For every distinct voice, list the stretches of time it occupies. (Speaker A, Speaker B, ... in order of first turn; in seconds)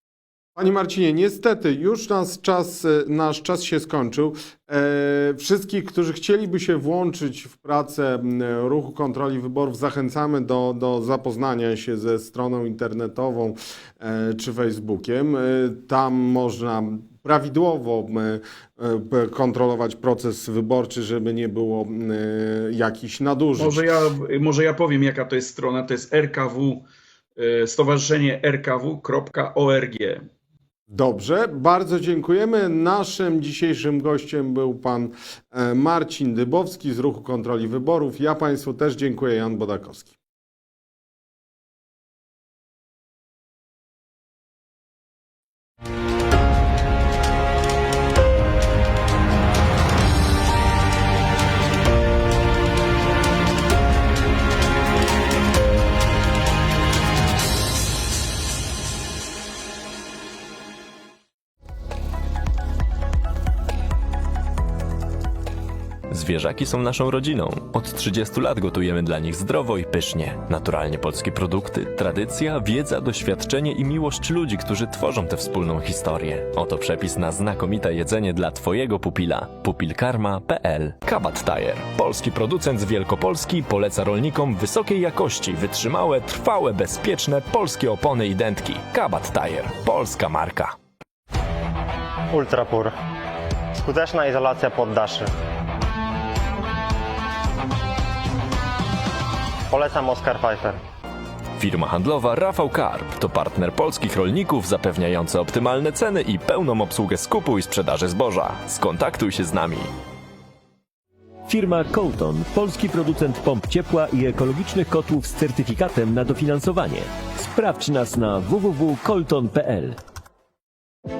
Speaker A: 0.6-23.9, 30.9-40.1
Speaker B: 23.6-26.9, 27.4-30.2
Speaker C: 66.1-90.8, 101.6-109.9
Speaker D: 92.3-93.0, 93.8-95.3, 99.7-100.8
Speaker E: 111.5-120.0